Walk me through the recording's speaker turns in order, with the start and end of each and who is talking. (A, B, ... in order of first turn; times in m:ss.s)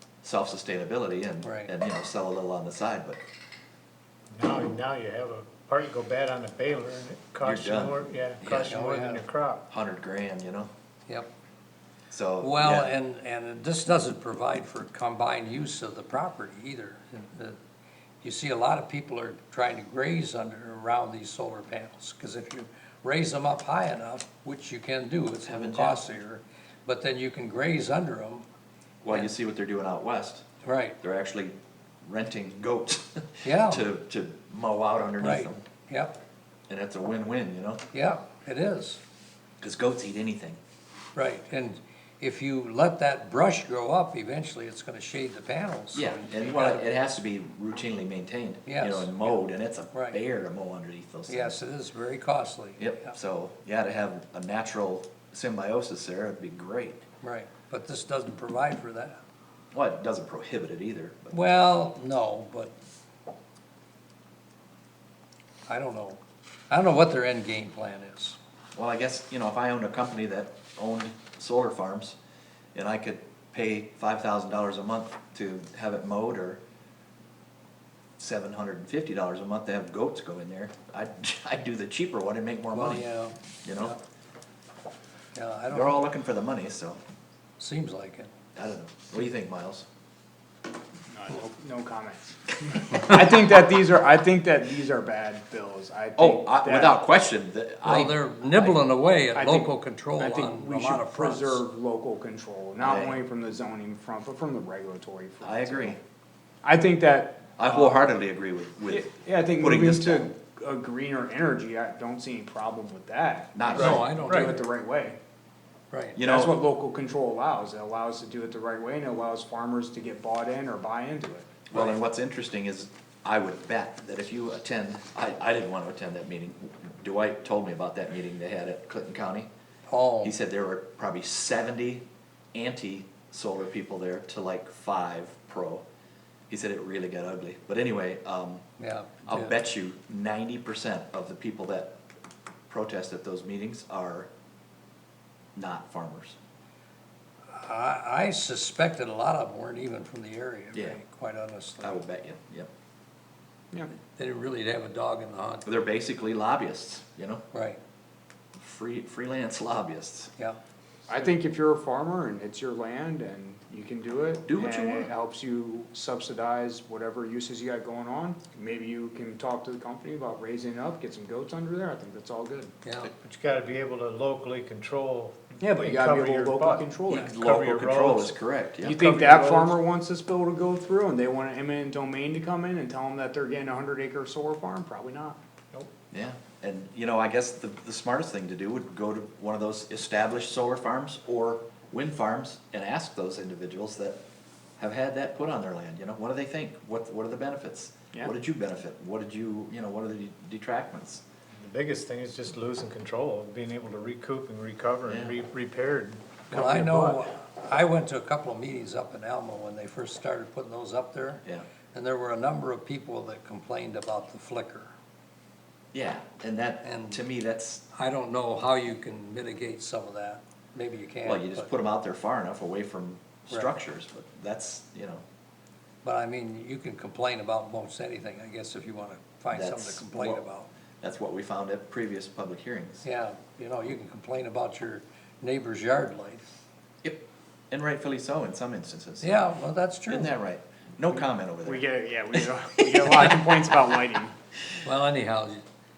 0:00.2-0:03.2 A
0:01.4-0:01.7 B
0:04.3-0:09.6 C
0:07.4-0:08.8 A
0:08.7-0:09.2 B
0:09.7-0:10.7 A
0:12.1-0:12.9 A
0:12.4-0:17.6 B
0:18.2-0:28.4 B
0:25.4-0:26.0 A
0:29.0-0:30.4 A
0:30.6-0:31.0 B
0:31.0-0:35.6 A
0:33.4-0:33.8 B
0:35.2-0:36.1 B
0:36.7-0:37.8 A
0:37.9-0:39.0 B
0:39.6-0:40.6 A
0:41.1-0:46.8 B
0:45.9-0:51.6 A
0:48.6-0:49.4 B
0:49.9-0:50.2 B
0:51.3-0:53.1 B
0:52.8-0:57.0 A
0:57.2-0:59.2 B
0:59.7-1:01.4 A
1:01.3-1:02.7 B
1:05.7-1:06.2 B
1:06.7-1:08.4 B
1:08.7-1:12.2 A
1:12.7-1:16.6 A
1:18.2-1:23.0 A
1:22.7-1:24.0 B
1:23.6-1:24.0 A
1:25.3-1:26.0 B
1:25.7-1:27.0 A
1:27.6-1:28.3 B
1:28.6-1:29.8 A
1:31.1-1:37.0 D
1:36.2-1:38.8 A
1:37.8-1:41.6 B
1:39.3-1:46.0 D
1:42.8-1:43.2 A
1:45.4-1:46.0 A
1:46.6-1:48.0 D
1:47.6-1:50.3 A
1:48.9-1:55.2 D
1:53.5-1:54.1 A
1:53.7-1:54.6 B
1:53.8-1:54.6 C
1:55.9-1:56.2 B
1:56.2-1:56.6 A
1:56.2-2:01.6 D
2:01.7-2:09.5 A
2:09.9-2:10.3 B
2:10.2-2:15.8 A
2:16.5-2:18.6 A
2:18.8-2:19.5 B
2:19.3-2:21.9 A
2:22.7-2:24.3 A
2:25.5-2:26.4 A
2:27.5-2:32.0 B
2:30.7-2:31.0 A
2:31.8-2:32.7 A
2:34.2-2:35.6 B
2:35.6-2:37.4 A
2:37.5-2:37.8 B
2:38.6-2:40.3 A
2:41.1-2:52.7 D
2:44.5-2:45.1 A
2:52.8-2:53.1 B
2:53.0-2:59.7 C
2:55.6-2:57.3 D
2:57.1-2:59.0 A
2:58.8-3:05.4 D
3:06.1-3:14.2 A
3:14.8-3:21.2 A
3:21.6-3:27.2 C
3:25.1-3:25.3 A
3:26.5-3:31.4 B
3:31.9-3:34.9 B
3:35.9-3:37.8 A
3:36.8-3:37.2 B
3:37.9-3:41.7 B
3:41.2-3:45.2 A
3:46.0-3:50.7 B
3:49.5-3:50.4 A
3:51.0-3:53.0 A
3:53.0-3:56.5 B
3:57.0-3:59.4 A
3:59.2-4:00.3 B
4:00.1-4:01.8 A
4:01.6-4:04.3 D
4:04.8-4:05.6 B